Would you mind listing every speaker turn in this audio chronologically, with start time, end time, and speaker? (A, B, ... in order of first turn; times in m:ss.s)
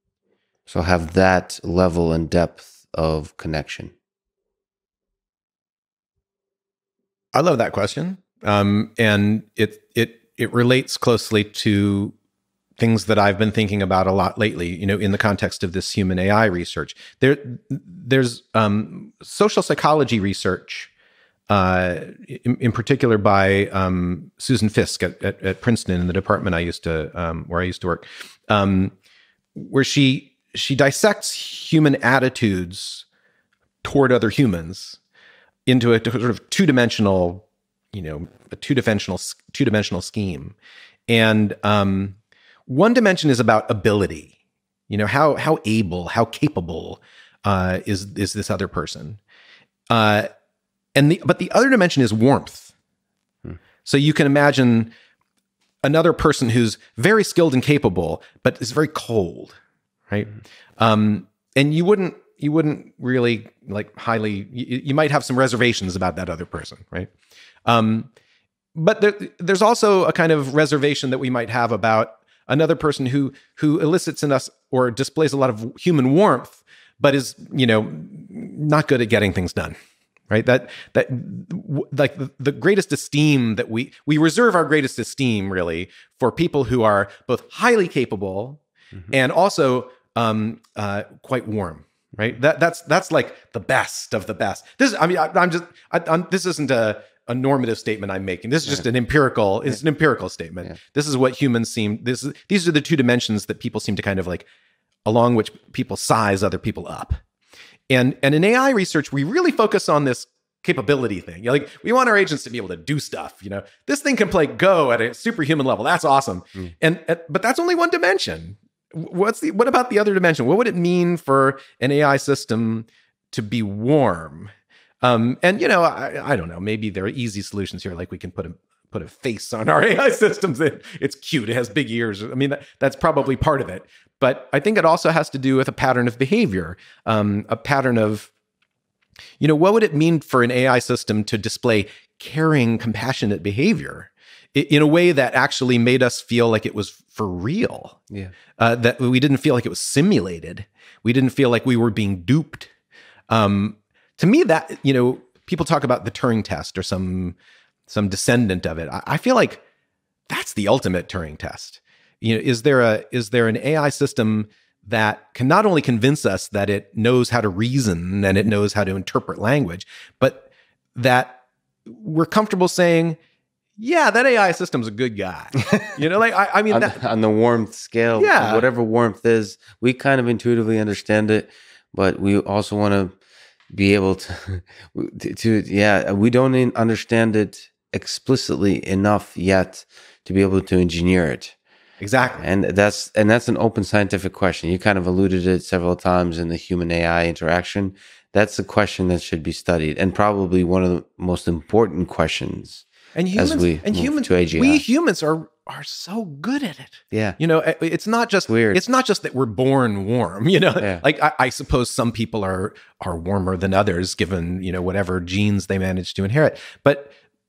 0:00.7-0:03.9 A
0:07.3-0:12.1 B
0:12.8-0:20.9 B
0:21.5-0:28.9 B
0:29.6-0:33.0 B
0:33.8-0:35.0 B
0:35.7-0:40.6 B
0:41.1-0:42.2 B
0:42.7-0:44.3 B
0:44.9-0:49.2 B
0:49.9-0:50.3 B
0:51.0-0:52.7 B
0:53.8-0:54.9 B
0:55.8-0:59.6 B
1:00.1-1:07.1 B
1:07.7-1:08.1 B
1:08.8-1:19.8 B
1:20.3-1:44.5 B
1:45.0-1:47.2 B
1:47.9-2:18.3 B
2:19.4-2:28.0 B
2:28.6-2:32.7 B
2:33.3-2:37.4 B
2:37.9-2:39.6 B
2:40.3-2:53.2 B
2:53.8-2:57.0 B
2:56.7-3:03.2 A
2:58.2-2:58.6 B
3:03.7-3:11.6 A
3:12.0-3:12.4 B
3:12.4-3:24.8 A
3:23.2-3:37.1 B
3:27.1-3:27.4 A
3:28.5-3:28.8 A